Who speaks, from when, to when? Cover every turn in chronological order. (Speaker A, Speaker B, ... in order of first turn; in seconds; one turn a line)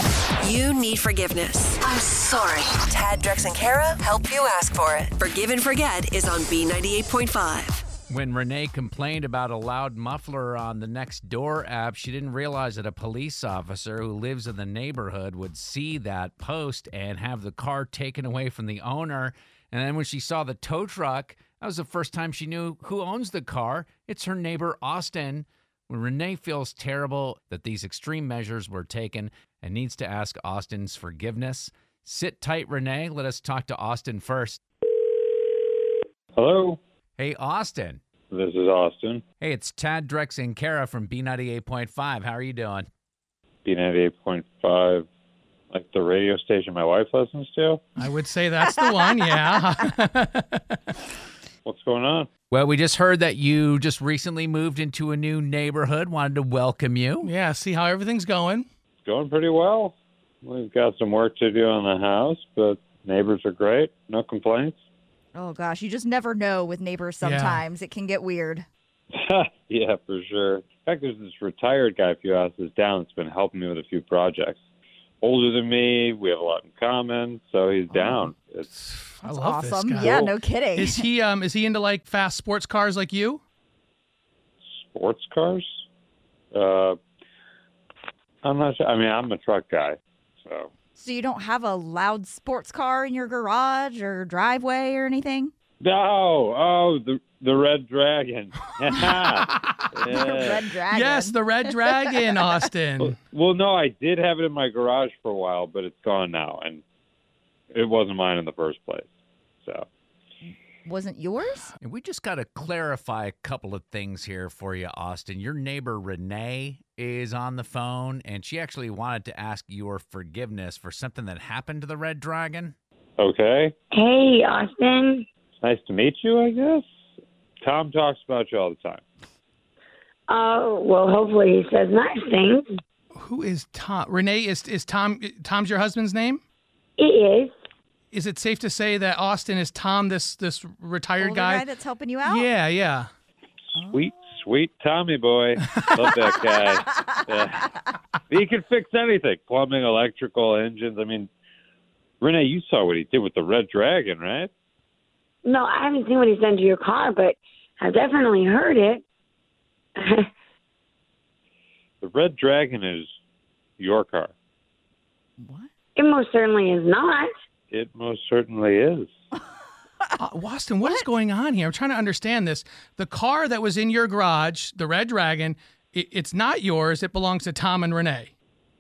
Speaker A: 0.4-7.8
Speaker B: 8.1-34.6
Speaker C: 36.4-36.8
Speaker B: 37.2-38.0
Speaker C: 38.3-39.2
Speaker B: 39.4-42.9
Speaker C: 43.6-45.1
Speaker C: 45.7-47.8
Speaker D: 48.0-50.8
Speaker C: 51.6-52.3
Speaker B: 52.5-57.3
Speaker D: 57.2-58.6
Speaker C: 59.0-64.8
Speaker E: 65.3-68.6
Speaker D: 67.2-67.6
Speaker C: 69.2-74.6
Speaker C: 75.2-78.7
Speaker E: 77.9-78.3
Speaker D: 78.7-83.4
Speaker E: 79.2-81.0
Speaker C: 84.8-85.8
Speaker C: 86.5-87.0
Speaker C: 88.4-90.7
Speaker E: 91.0-95.5
Speaker C: 95.8-100.7
Speaker D: 99.4-99.8
Speaker E: 100.0-102.1
Speaker D: 100.8-103.2
Speaker C: 103.0-106.8
Speaker C: 107.7-109.1
Speaker E: 110.8-111.7
Speaker B: 111.8-122.7
Speaker C: 123.2-123.7
Speaker F: 123.9-125.2
Speaker C: 125.6-126.8
Speaker C: 127.6-129.0
Speaker F: 130.3-132.7
Speaker D: 133.2-136.4
Speaker F: 137.0-137.5
Speaker D: 138.1-141.6
Speaker E: 141.2-142.5
Speaker D: 142.2-143.1
Speaker E: 143.7-144.3
Speaker C: 143.8-147.7
Speaker D: 145.6-146.2
Speaker C: 148.3-151.3
Speaker C: 152.2-154.5
Speaker F: 155.4-159.0
Speaker F: 160.0-160.3
Speaker C: 162.0-163.1
Speaker C: 163.8-164.3
Speaker E: 165.4-165.7
Speaker F: 165.9-167.3
Speaker C: 167.7-169.1
Speaker D: 170.2-178.3